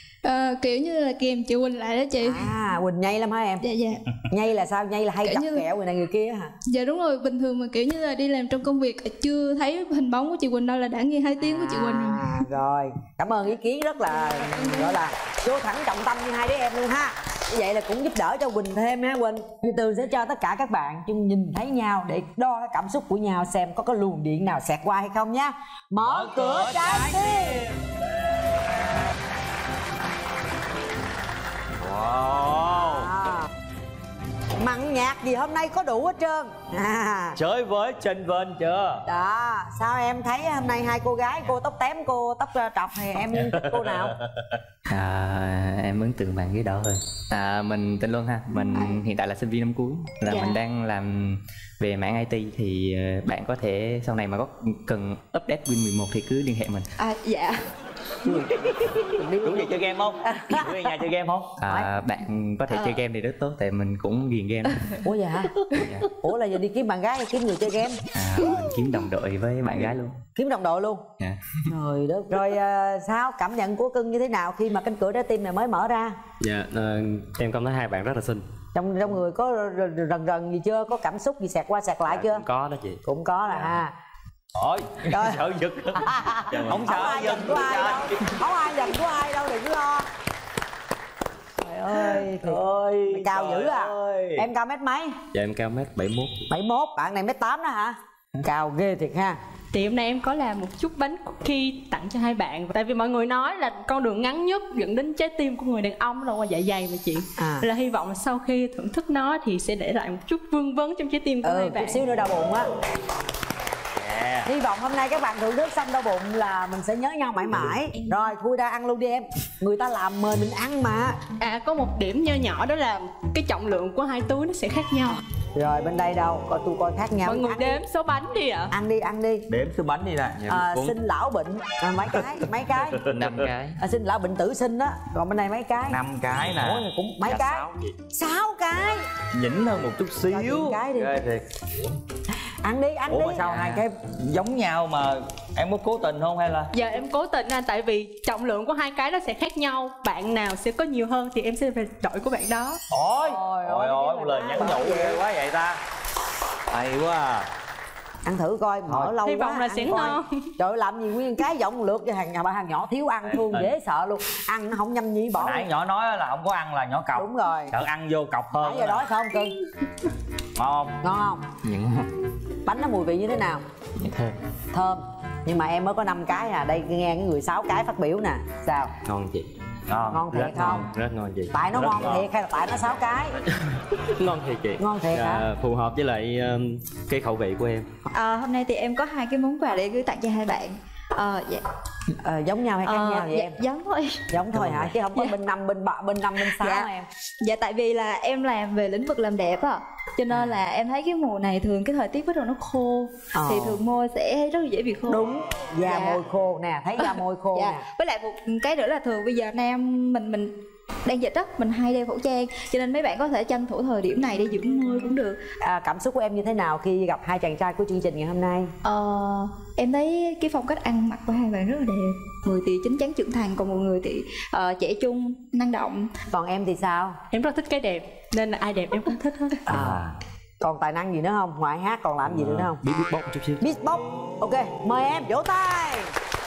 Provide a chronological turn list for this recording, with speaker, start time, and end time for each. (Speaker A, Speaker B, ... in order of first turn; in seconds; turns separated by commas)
Speaker A: 0.2-2.5, Speaker B: 2.2-3.6, Speaker A: 3.6-4.0, Speaker B: 4.3-6.5, Speaker A: 5.2-5.7, Speaker A: 6.7-12.4, Speaker B: 11.4-27.6, Speaker A: 14.6-14.9, Speaker C: 26.0-27.8, Speaker C: 31.8-33.1, Speaker B: 32.8-33.5, Speaker B: 34.6-37.4, Speaker C: 37.4-39.0, Speaker B: 39.0-44.1, Speaker D: 44.9-56.9, Speaker E: 48.5-49.0, Speaker E: 50.3-50.5, Speaker E: 57.0-57.6, Speaker B: 58.2-61.0, Speaker C: 59.4-61.5, Speaker D: 61.6-64.8, Speaker B: 61.6-61.9, Speaker E: 62.7-63.0, Speaker E: 64.7-65.0, Speaker B: 65.0-65.5, Speaker D: 65.8-66.0, Speaker B: 66.2-68.0, Speaker D: 68.1-70.2, Speaker B: 70.3-71.0, Speaker B: 71.7-76.2, Speaker F: 76.4-78.5, Speaker B: 78.7-82.4, Speaker F: 82.1-83.0, Speaker B: 83.0-83.9, Speaker C: 84.6-88.2, Speaker B: 85.1-85.4, Speaker B: 85.9-90.1, Speaker F: 86.5-87.3, Speaker B: 91.6-95.2, Speaker C: 92.0-94.4, Speaker F: 95.3-96.4, Speaker B: 96.5-99.4, Speaker G: 99.7-112.0, Speaker B: 107.3-107.7, Speaker B: 111.4-112.7, Speaker C: 114.0-114.5, Speaker B: 114.4-121.2, Speaker G: 121.4-125.2, Speaker B: 125.5-127.8, Speaker G: 127.2-128.7, Speaker B: 128.7-129.5, Speaker C: 129.5-130.8, Speaker B: 130.5-133.0, Speaker C: 133.0-133.4, Speaker D: 133.1-133.8, Speaker B: 133.8-139.1, Speaker C: 135.9-136.8, Speaker C: 139.3-141.4, Speaker B: 140.3-141.2, Speaker B: 142.6-143.9, Speaker C: 143.1-146.7, Speaker G: 146.7-152.8, Speaker C: 152.9-155.8, Speaker B: 153.2-155.2, Speaker C: 156.7-157.5, Speaker B: 158.2-165.7, Speaker C: 158.9-159.1, Speaker G: 159.2-160.3, Speaker C: 163.3-163.7, Speaker C: 165.4-169.0, Speaker B: 167.1-167.7, Speaker B: 168.6-169.5, Speaker C: 170.6-170.9, Speaker B: 171.0-171.4, Speaker D: 171.6-172.0, Speaker B: 172.7-173.6, Speaker D: 174.0-174.2, Speaker B: 174.7-178.9, Speaker F: 179.0-179.5, Speaker C: 179.9-180.3, Speaker B: 180.1-180.9, Speaker F: 180.3-182.2, Speaker B: 181.5-183.3, Speaker C: 181.8-182.1, Speaker F: 184.1-187.9, Speaker B: 184.8-185.4, Speaker E: 188.1-191.6, Speaker B: 192.2-193.6, Speaker E: 192.8-194.2, Speaker B: 194.3-197.1, Speaker F: 194.5-194.9, Speaker E: 196.4-196.9, Speaker E: 197.4-205.3, Speaker B: 203.3-203.8, Speaker B: 205.1-207.8, Speaker E: 205.8-206.2, Speaker E: 207.0-210.5, Speaker E: 211.0-215.4, Speaker B: 215.6-218.7, Speaker E: 218.8-226.1, Speaker B: 226.3-227.2, Speaker G: 227.3-229.7, Speaker B: 229.7-230.0, Speaker F: 229.7-230.0, Speaker B: 230.6-232.8, Speaker F: 232.2-233.6, Speaker B: 233.6-236.1